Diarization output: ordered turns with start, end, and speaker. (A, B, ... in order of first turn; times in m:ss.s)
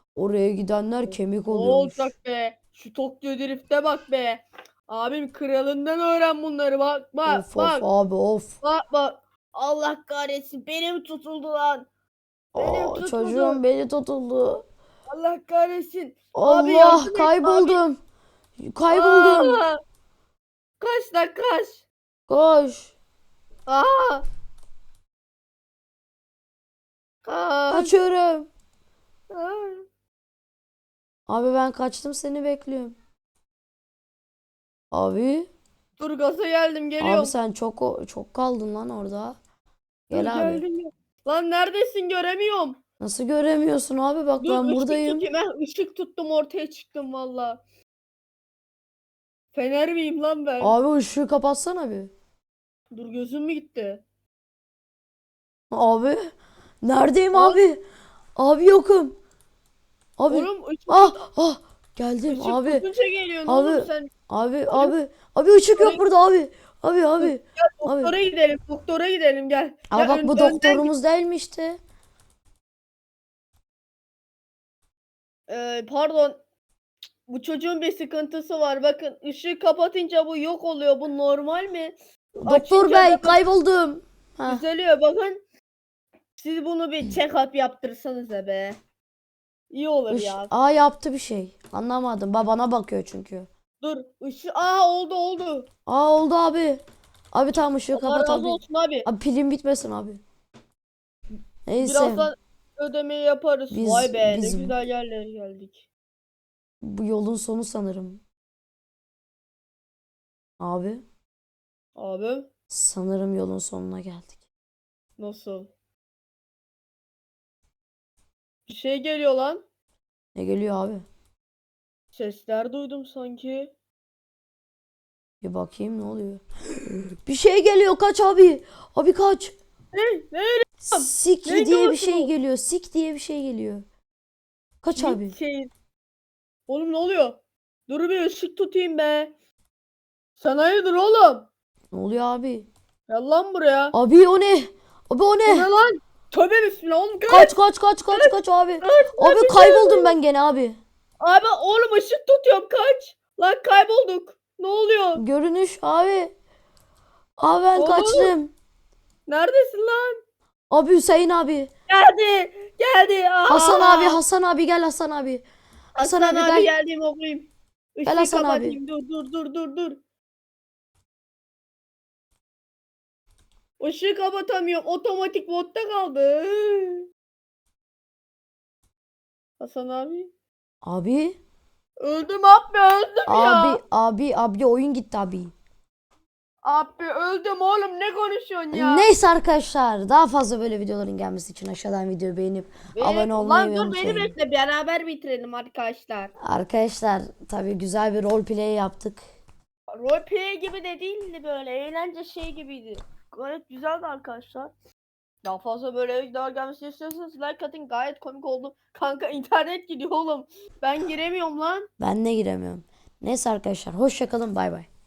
0:00.1-0:02.1 A
0:01.5-0:07.9 B
0:07.2-0:08.5 A
0:08.6-0:11.9 B
0:12.5-0:13.6 B
0:12.5-0:14.6 A
0:15.1-0:17.8 B
0:16.3-0:18.0 A
0:18.6-0:19.6 A
0:18.9-0:19.8 B
0:20.8-0:21.8 B
0:22.3-0:22.9 A
0:23.7-0:24.2 B
0:27.2-0:27.9 B
0:27.7-0:28.5 A
0:29.3-0:29.8 B
0:31.3-0:33.0 A
0:34.9-0:35.5 A
0:36.0-0:37.3 B
0:37.0-0:39.4 A
0:40.1-0:40.6 A
0:40.1-0:42.8 B
0:43.0-0:45.3 A
0:44.4-0:47.6 B
0:49.5-0:50.8 B
0:50.6-0:52.1 A
0:52.9-0:54.0 B
0:55.7-0:57.8 A
0:57.3-0:57.6 B
0:58.4-0:59.2 A
1:00.2-1:02.8 A
1:00.3-1:01.2 B
1:02.3-1:04.1 B
1:03.4-1:08.1 A
1:04.7-1:04.9 B
1:05.8-1:06.0 B
1:07.2-1:10.9 B
1:09.9-1:11.8 A
1:15.5-1:16.4 B
1:17.3-1:23.4 B
1:22.4-1:24.6 A
1:24.5-1:25.4 B
1:26.4-1:28.8 B
1:29.7-1:30.5 B
1:30.1-1:33.5 A
1:33.8-1:35.7 B
1:35.9-1:40.2 A
1:37.9-1:39.1 B
1:41.6-1:42.3 A
1:41.8-1:45.8 B
1:43.7-1:44.7 A
1:46.8-1:48.2 A
1:50.6-1:51.0 A
1:52.0-1:52.5 B
1:52.7-1:54.4 A
1:55.2-1:55.7 B
1:58.7-1:59.6 B
2:00.3-2:01.1 A
2:02.1-2:03.7 B
2:05.4-2:09.5 A
2:09.9-2:12.3 B
2:10.8-2:13.8 A
2:14.8-2:15.4 A
2:15.0-2:15.7 B
2:16.7-2:19.3 B
2:20.4-2:21.5 B
2:21.9-2:22.7 A
2:23.1-2:23.9 B
2:23.9-2:25.7 A
2:25.4-2:27.5 B
2:27.3-2:30.8 A
2:28.1-2:30.1 B
2:31.2-2:35.2 B
2:35.2-2:36.4 A
2:37.4-2:38.5 A
2:37.7-2:38.3 B
2:39.3-2:40.2 B
2:40.7-2:41.7 A
2:41.9-2:44.2 B
2:43.5-2:45.4 A
2:46.0-2:50.0 B
2:46.0-2:46.7 A
2:48.0-2:48.8 A
2:53.8-2:57.1 B
2:59.6-3:00.3 B
3:00.8-3:01.4 A
3:02.0-3:03.8 B
3:03.3-3:05.5 A
3:06.6-3:09.1 B
3:08.7-3:14.3 A
3:12.9-3:16.3 B
3:16.4-3:19.2 A
3:19.9-3:24.7 B
3:25.4-3:31.9 B
3:32.0-3:34.9 A